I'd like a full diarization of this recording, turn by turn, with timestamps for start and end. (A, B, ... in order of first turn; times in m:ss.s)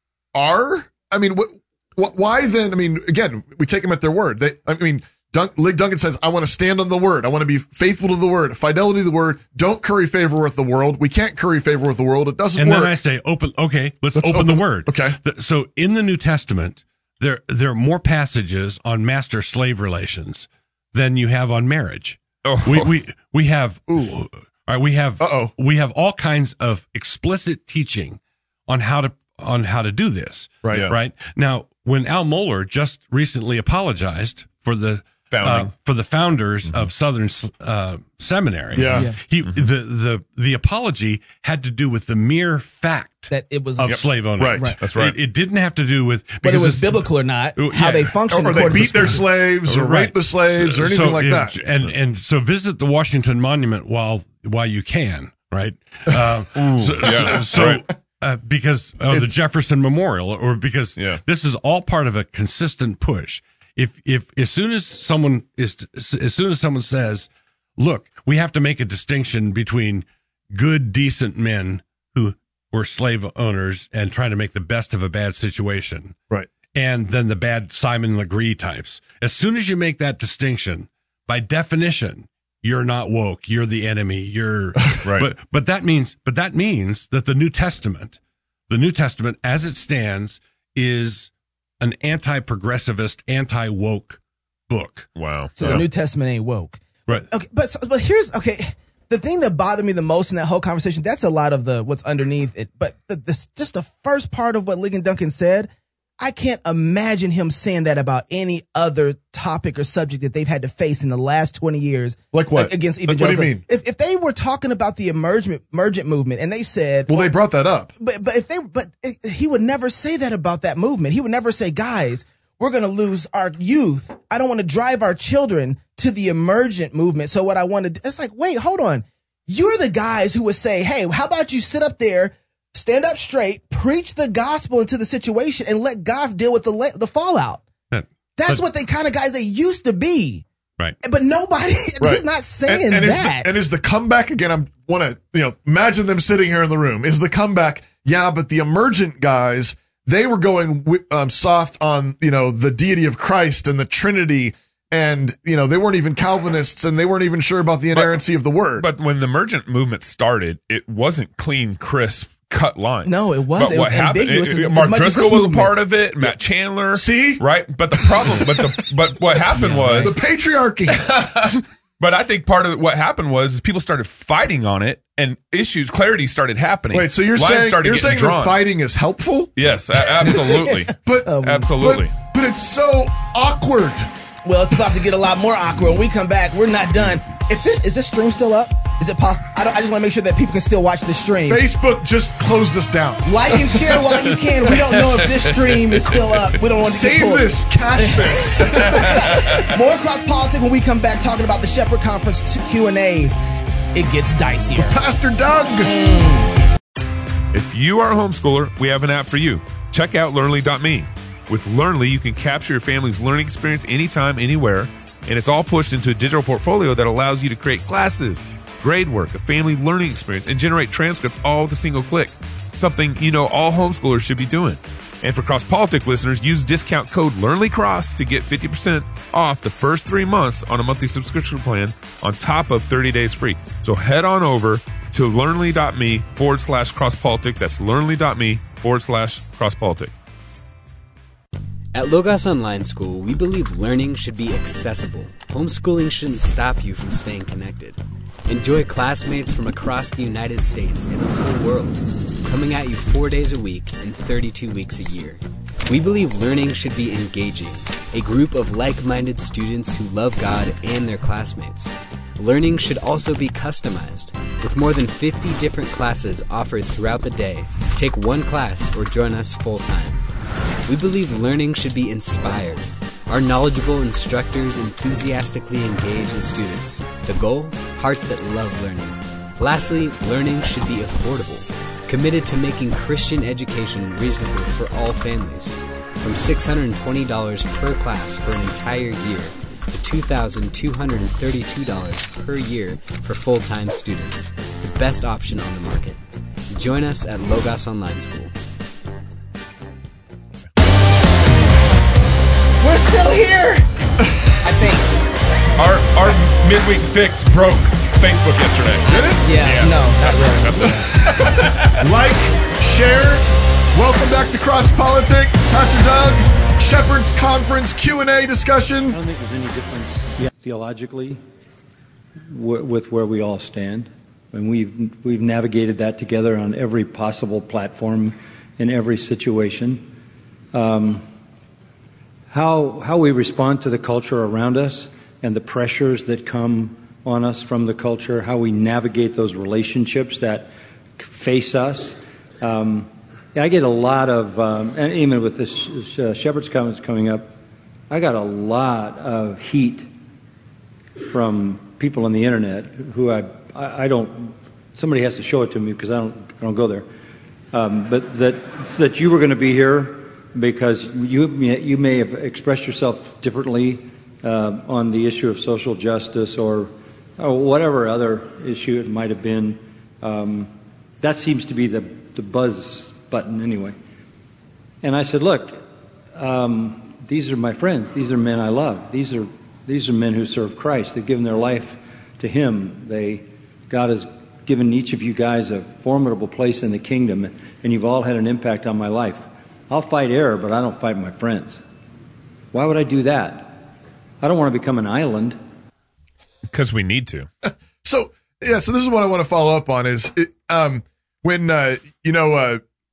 0:00.3-0:13.0 A
0:12.6-1:16.2 B
0:14.1-0:15.2 A
0:22.4-0:22.9 C
0:25.2-0:25.5 A
0:30.6-0:30.9 A
0:35.3-0:35.7 C
0:38.7-0:39.1 A
0:43.3-0:44.8 D
0:44.4-0:44.7 A
0:44.8-0:45.2 C
0:46.4-0:49.2 D
0:48.3-0:51.6 A
0:56.6-0:57.8 C
0:57.4-0:57.7 A
1:16.7-1:28.2 B
1:28.7-1:35.1 B
1:35.2-1:35.8 C
1:35.6-1:57.3 D
1:52.3-1:53.6 A
1:57.1-1:57.9 A
1:58.0-2:17.6 D
2:17.9-2:18.6 B
2:18.4-2:20.4 D
2:21.0-2:23.5 D
2:22.0-2:38.8 A
2:37.9-2:38.2 C
2:38.8-2:50.2 C
2:43.0-2:45.7 D
2:46.9-2:47.4 A
2:48.0-2:48.6 A
2:49.6-2:50.1 D
2:49.9-2:51.1 A
2:50.9-2:58.6 C
2:56.9-2:59.5 A
2:59.6-3:02.1 C
3:00.3-3:00.7 D
3:01.0-3:04.1 A
3:01.2-3:01.7 D
3:04.4-3:11.6 D
3:11.5-3:13.8 A
3:13.2-3:23.3 D
3:16.8-3:19.1 A
3:19.1-3:19.6 C
3:23.9-3:25.0 D
3:24.8-3:25.9 A
3:25.8-3:26.5 D
3:27.5-4:00.1 C
4:01.9-4:30.2 E
4:30.8-4:56.2 E
4:56.7-4:58.5 E
5:02.8-5:03.9 D
5:04.6-5:05.1 D
5:05.8-5:11.9 C
5:09.0-5:09.4 A
5:09.0-5:11.6 D
5:11.9-5:19.2 A
5:19.1-5:21.4 F
5:22.5-5:30.0 F
5:30.7-5:31.2 F
5:32.5-5:47.6 F
5:48.1-5:50.1 F
5:51.2-5:57.1 F
5:57.7-6:14.0 F
6:15.0-6:15.8 F
6:16.3-6:31.8 F
6:32.7-6:33.9 F
6:34.4-6:35.6 F
6:36.7-6:37.5 C
6:37.6-6:42.8 A